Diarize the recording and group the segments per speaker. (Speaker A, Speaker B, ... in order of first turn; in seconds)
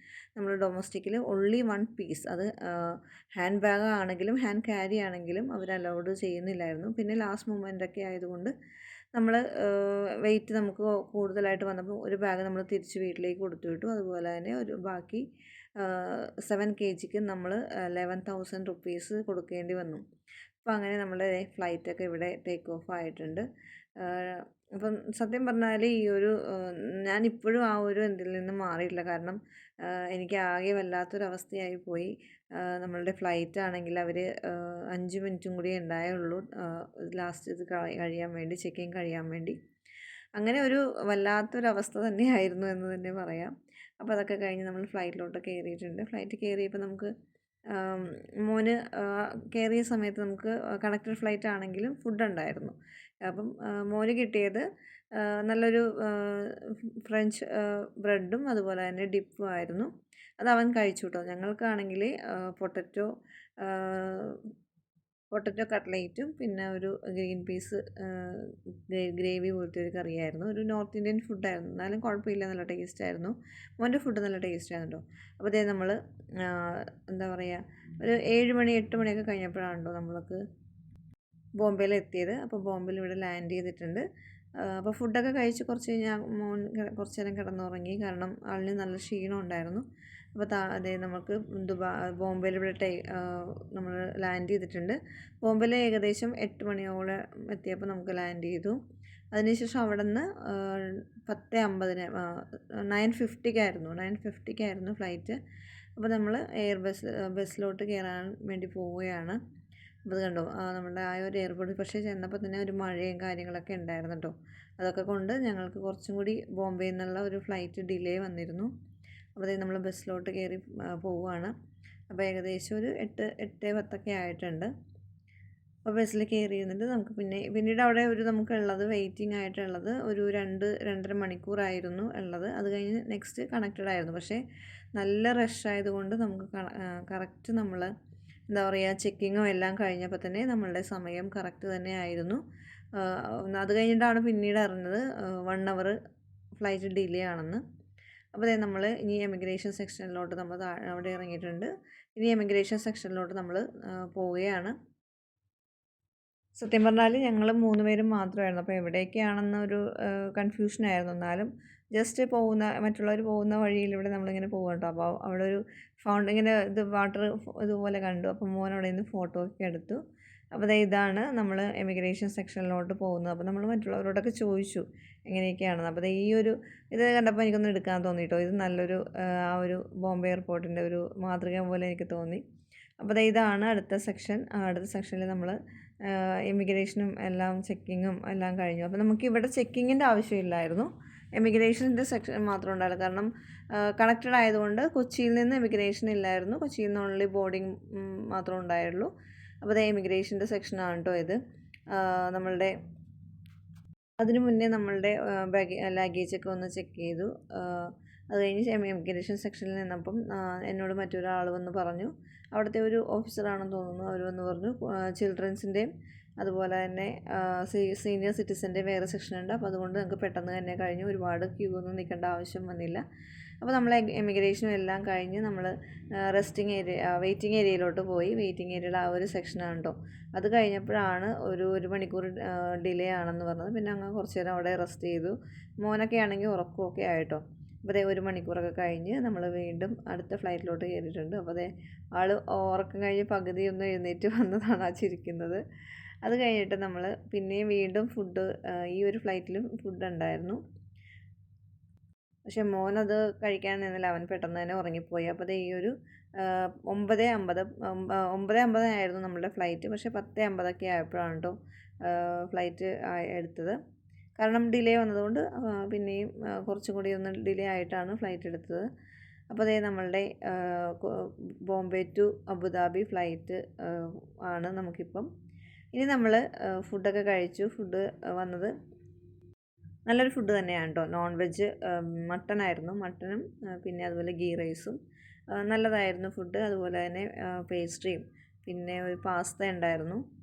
Speaker A: 0.4-8.5, 9.1-15.2, 15.8-20.0, 20.6-23.5, 24.0-39.6, 40.4-47.1, 47.7-63.1, 63.6-64.5, 65.3-80.4, 81.6-84.0, 84.6-98.8, 99.3-105.4, 106.0-109.4, 110.1-118.7, 119.4-121.5, 122.1-124.7, 125.8-134.4, 135.0-137.9, 138.5-142.4, 142.9-146.0, 146.6-147.6, 148.3-154.8, 156.6-170.0, 170.5-182.4, 183.0-201.4, 201.9-202.7, 204.2-215.9, 216.4-223.0, 223.6-245.6, 246.2-250.6, 252.5-263.8, 264.4-268.9, 269.5-275.3, 275.9-278.7, 280.1-285.0, 285.5-290.2